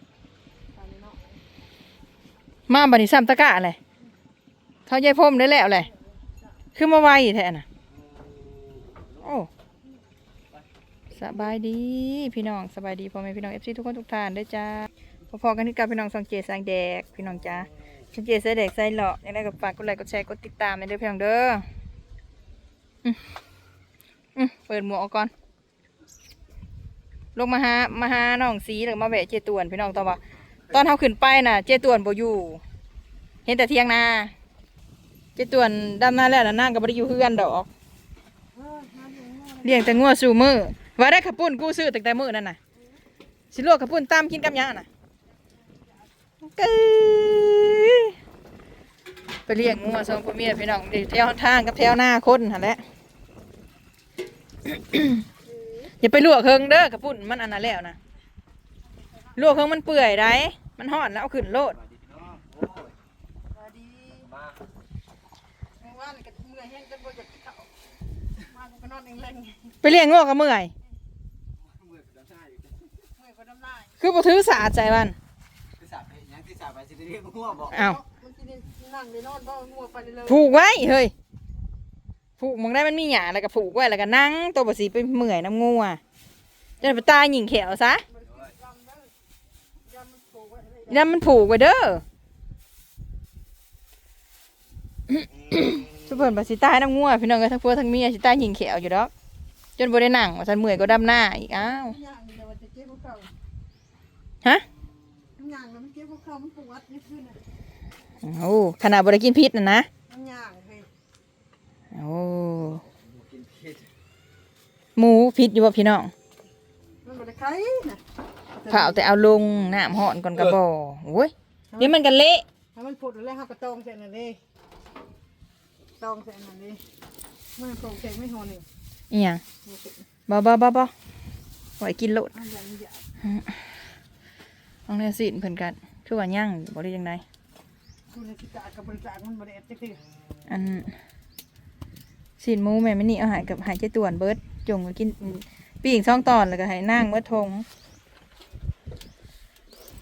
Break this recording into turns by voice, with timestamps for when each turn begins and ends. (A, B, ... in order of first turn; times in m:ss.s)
0:00.7-0:01.4 A
0:02.7-0:03.8 B
0:04.9-0:05.9 B
0:05.8-0:06.5 A
0:06.7-0:07.6 B
0:08.0-0:09.2 C
0:09.2-0:09.5 B
0:11.1-0:21.7 B
0:24.3-0:25.3 B
0:27.3-0:32.6 B
0:33.4-0:34.3 B
0:35.4-0:37.7 B
0:38.5-0:40.0 A
0:39.6-0:42.6 B
0:43.5-0:44.9 B
0:45.7-0:45.9 A
0:46.5-0:48.1 B
0:49.5-0:52.8 B
0:54.6-0:55.2 B
0:55.5-0:55.9 A
0:56.0-0:58.0 B
0:58.8-0:59.4 A
0:59.4-1:01.7 B
1:01.7-1:02.9 C
1:03.5-1:04.3 A
1:04.2-1:04.6 C
1:05.8-1:07.7 A
1:08.4-1:09.8 A
1:09.8-1:10.7 B
1:11.6-1:12.8 C
1:13.2-1:14.0 A
1:14.0-1:15.2 B
1:15.8-1:17.8 C
1:17.7-1:20.5 A
1:17.7-1:18.0 B
1:20.3-1:21.1 B
1:22.4-1:26.0 B
1:26.8-1:28.0 B
1:28.1-1:29.1 A
1:28.2-1:28.5 C
1:29.8-1:31.2 A
1:30.9-1:32.0 B
1:35.1-1:39.1 B
1:35.5-1:36.1 C
1:39.8-1:42.0 B
1:41.5-1:43.3 A
1:45.4-1:47.4 A
1:48.2-1:49.9 B
1:50.1-1:50.9 A
1:51.9-1:52.7 B
1:52.6-1:53.9 C
1:55.0-1:56.1 B
1:57.0-1:58.0 A
1:58.5-1:59.1 A
1:58.7-2:02.4 B
2:01.7-2:02.0 A
2:02.7-2:04.4 A
2:06.0-2:06.8 A
2:07.6-2:08.6 A
2:09.1-2:09.4 B
2:09.6-2:10.0 A
2:10.3-2:10.9 B
2:11.8-2:12.3 B
2:12.3-2:13.0 A
2:13.2-2:13.7 B
2:14.9-2:17.2 B
2:18.1-2:20.0 A
2:20.5-2:21.0 B
2:22.4-2:27.6 B